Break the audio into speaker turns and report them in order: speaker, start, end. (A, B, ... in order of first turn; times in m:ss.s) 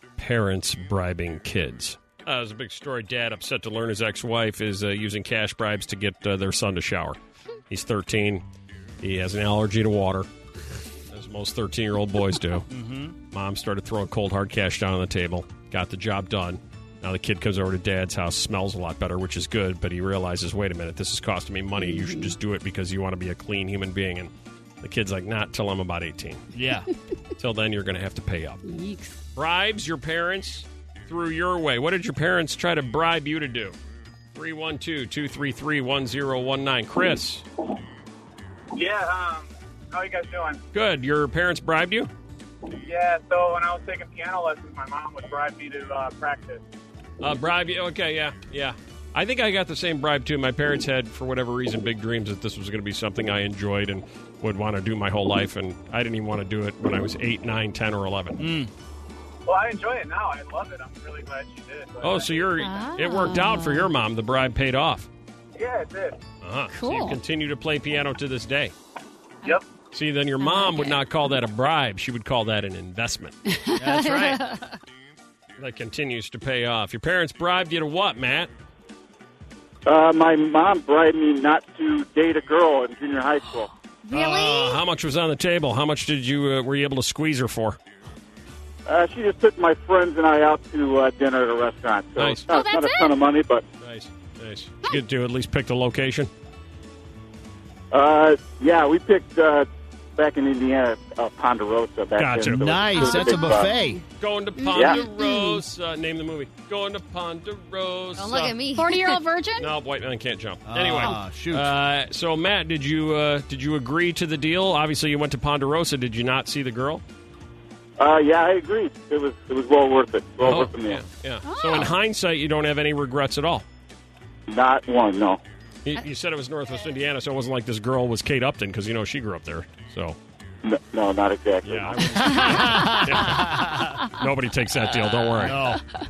0:00.2-0:07.2 A
0:07.7-0:08.4 A
0:09.0-0:10.3 A
0:11.1-0:12.7 A
0:12.7-0:13.1 B
0:13.3-0:26.4 A
0:21.8-0:22.3 C
0:26.5-0:26.9 B
0:27.4-0:28.6 A
0:28.6-0:29.2 C
0:29.3-0:33.8 A
0:34.3-0:37.4 A
0:38.7-0:40.6 D
0:40.7-0:42.1 A
0:42.7-0:46.6 D
0:47.2-0:58.5 A
0:58.4-0:58.7 B
0:59.4-1:02.4 D
1:02.0-1:05.1 A
1:02.6-1:03.9 C
1:05.6-1:06.2 D
1:06.4-1:08.7 A
1:06.8-1:07.2 E
1:09.9-1:13.4 A
1:13.5-1:14.4 C
1:13.8-1:14.4 B
1:15.6-1:18.5 A
1:19.8-1:23.7 F
1:24.1-1:24.8 E
1:24.1-1:27.8 A
1:28.8-1:33.6 F
1:32.2-1:32.5 A
1:32.5-1:33.2 E
1:33.8-1:36.3 A
1:37.9-1:43.7 F
1:42.2-1:42.7 A
1:42.5-1:44.0 B
1:43.0-1:44.0 C
1:44.2-1:48.6 A
1:44.6-1:45.6 C
1:48.2-1:49.2 E
1:48.7-1:49.7 C
1:49.6-1:57.0 A
1:50.6-1:51.7 B
1:58.0-2:01.0 F
2:00.4-2:03.6 A
2:01.4-2:01.9 C
2:04.5-2:05.4 F
2:05.8-2:10.2 A
2:10.6-2:12.1 F
2:11.6-2:15.7 A
2:12.2-2:14.0 B
2:15.4-2:15.8 B